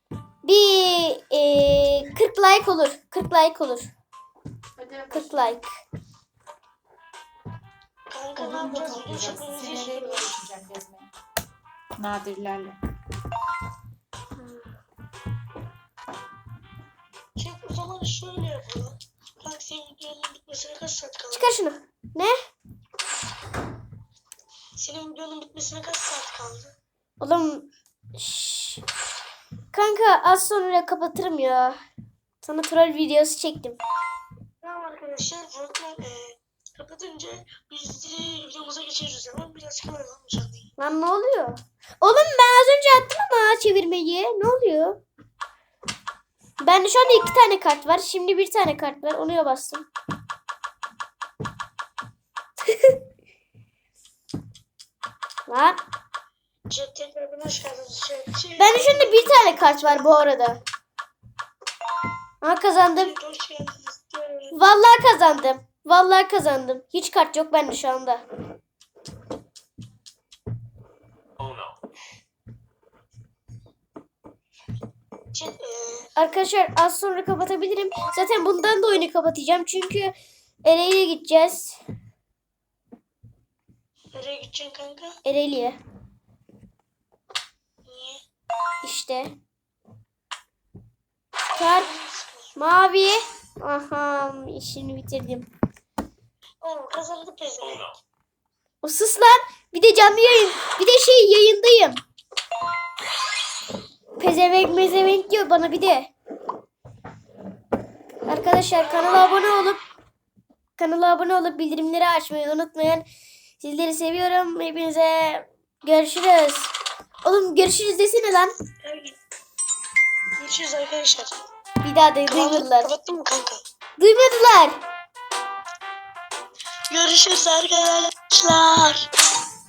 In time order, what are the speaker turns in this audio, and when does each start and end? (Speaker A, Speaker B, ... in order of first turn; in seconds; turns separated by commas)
Speaker A: 0.4-3.9, Speaker B: 4.8-5.4, Speaker A: 5.1-5.7, Speaker C: 8.1-10.3, Speaker B: 8.4-11.1, Speaker B: 12.0-12.8, Speaker C: 17.4-21.6, Speaker A: 21.3-22.4, Speaker C: 24.8-26.7, Speaker A: 27.2-28.9, Speaker A: 29.7-31.8, Speaker A: 32.4-33.8, Speaker C: 34.6-40.7, Speaker A: 40.8-45.0, Speaker A: 46.6-49.9, Speaker A: 52.7-53.0, Speaker A: 55.5-55.8, Speaker C: 56.7-60.1, Speaker A: 58.6-60.6, Speaker A: 62.4-63.2, Speaker C: 63.0-64.6, Speaker A: 64.5-68.3, Speaker C: 75.3-76.1, Speaker A: 76.2-80.1, Speaker A: 80.7-81.8, Speaker C: 84.1-85.2, Speaker A: 85.2-85.8, Speaker C: 87.8-88.2, Speaker A: 88.8-89.4, Speaker A: 91.5-91.9, Speaker C: 91.7-92.6, Speaker A: 92.6-95.5, Speaker C: 96.6-98.0, Speaker A: 98.8-102.0, Speaker A: 104.2-106.1, Speaker A: 108.3-109.8, Speaker A: 110.8-113.1, Speaker A: 113.6-116.7, Speaker A: 117.2-118.5, Speaker C: 118.8-119.2, Speaker C: 120.4-121.5, Speaker A: 121.8-122.9, Speaker C: 122.3-123.6, Speaker A: 124.0-124.8, Speaker C: 126.9-129.1